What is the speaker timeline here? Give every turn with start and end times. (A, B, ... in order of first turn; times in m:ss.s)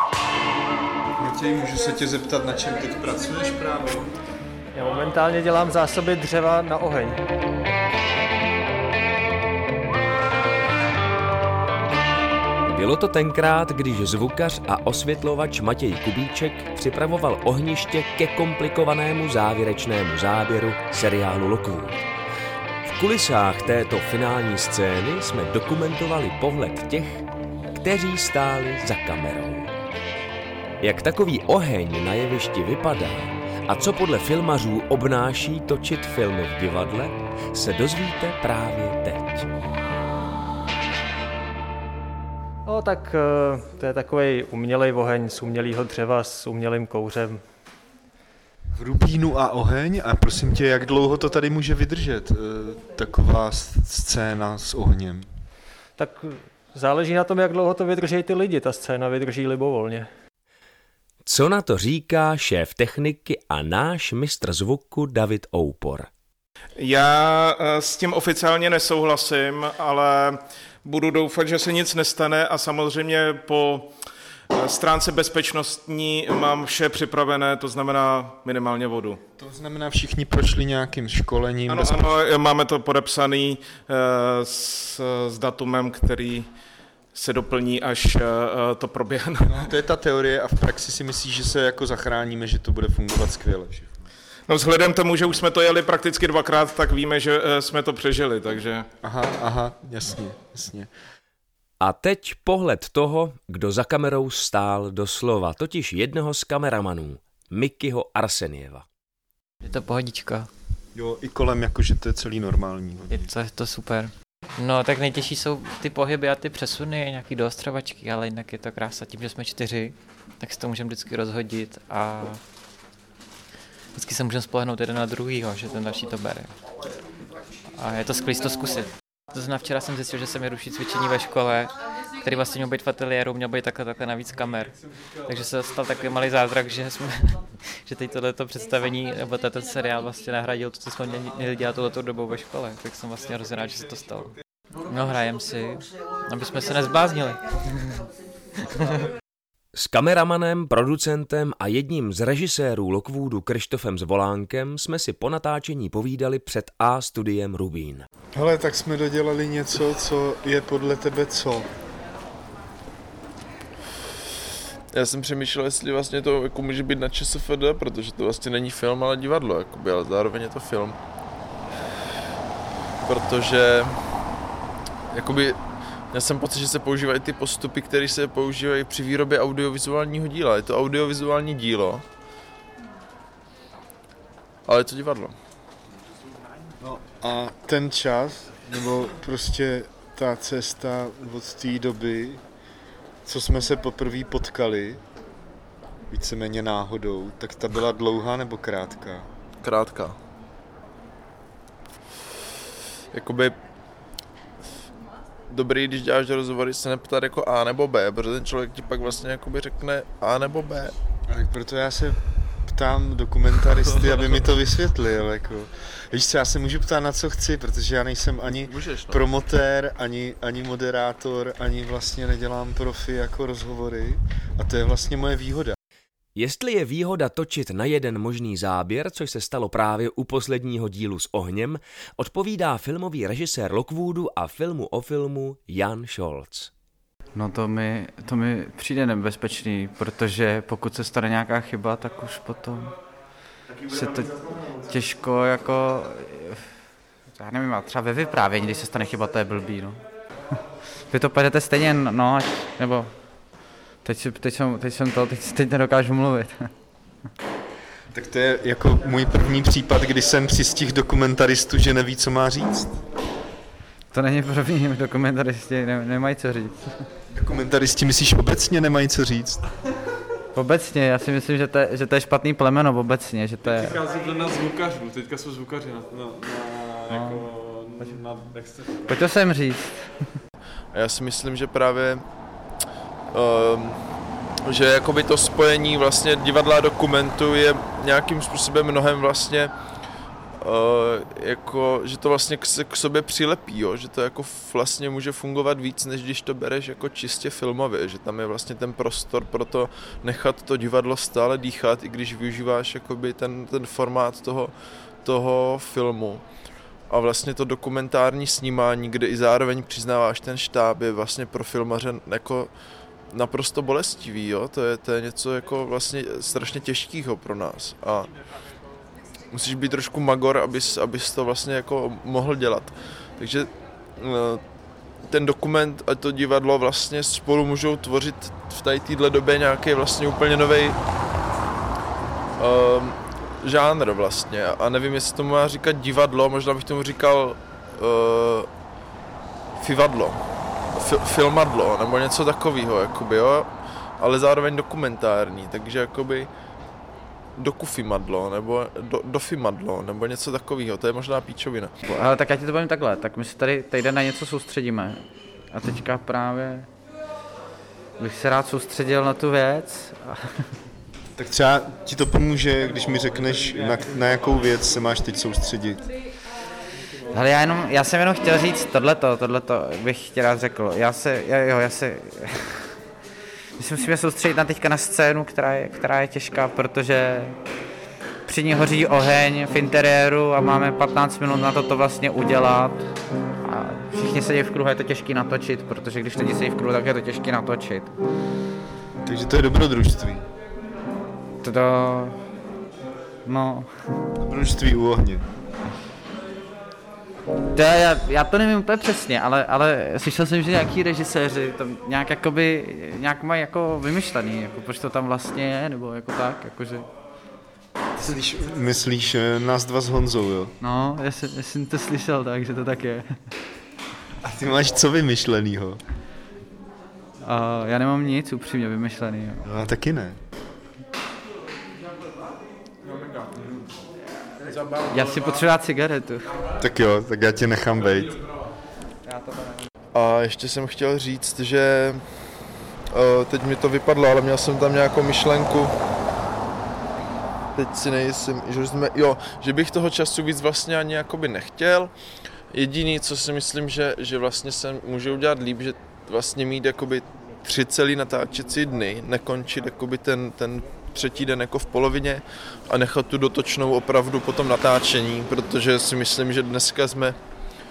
0:01.2-0:04.1 A
0:04.7-0:07.2 B
0:12.6-0:22.0 C
0:22.8-0:29.7 C
0:30.8-0:39.5 C
0:42.6-0:47.4 B
0:48.8-0:55.3 A
0:56.0-1:00.1 B
1:01.2-1:06.1 C
1:06.8-1:13.9 D
1:14.5-1:19.2 D
1:19.4-1:22.0 A
1:21.7-1:26.5 D
1:27.1-1:29.7 D
1:29.4-1:34.0 A
1:34.5-1:38.8 D
1:39.0-1:40.9 A
1:41.8-1:48.8 C
1:49.6-1:50.5 E
1:50.9-1:53.3 A
1:53.1-2:02.4 E
2:03.9-2:06.5 E
2:07.8-2:24.3 E
2:24.9-2:28.0 E
2:29.7-2:38.0 C
2:38.3-2:41.7 A
2:44.9-2:51.0 F
2:53.0-2:54.0 F
2:55.1-2:55.6 F
2:56.1-3:02.0 F
3:04.7-3:05.3 F
3:06.8-3:12.4 A
3:13.2-3:15.0 A
3:16.1-3:19.2 A
3:19.6-3:20.2 F
3:23.1-3:23.5 F
3:25.5-3:30.9 F
3:31.3-3:45.8 A
3:38.5-3:39.2 F
3:46.4-3:56.7 C
3:57.3-4:02.9 G
4:03.8-4:06.7 G
4:07.4-4:10.0 G
4:11.1-4:13.1 G
4:14.0-4:16.7 G
4:18.1-4:22.9 A
4:24.1-4:26.9 G
4:27.3-4:29.6 A
4:30.5-4:34.0 G
4:33.7-4:39.2 H
4:37.1-4:37.4 G
4:39.1-4:40.3 G
4:40.9-4:42.2 F
4:43.3-4:44.0 F
4:44.6-4:49.7 F
4:50.6-5:04.7 F
5:05.2-5:06.4 F
5:07.1-5:12.7 F
5:13.3-5:18.3 F
5:19.5-5:24.6 F
5:25.3-5:31.0 F
5:32.6-5:38.7 F
5:39.8-5:40.4 F
5:41.0-5:43.7 F
5:44.2-5:46.5 F
5:47.6-5:51.9 F
5:52.1-5:55.2 G
5:55.7-5:56.9 G
5:58.2-6:00.7 G
6:01.4-6:06.0 A
6:07.3-6:13.0 G
6:13.8-6:17.6 G
6:18.4-6:23.1 G
6:23.6-6:28.1 G
6:29.2-6:30.4 A
6:31.6-6:32.4 G
6:33.4-6:33.9 G
6:34.4-6:35.4 A
6:37.7-6:47.1 G
6:48.2-6:50.7 A
6:50.8-6:53.3 G
6:54.4-6:56.0 A
6:57.4-6:59.6 G
6:59.6-7:00.4 A
7:05.0-7:06.5 G
7:06.8-7:08.4 A
7:10.1-7:12.2 F
7:13.1-7:15.9 F
7:17.7-7:22.1 F
7:22.7-7:37.4 F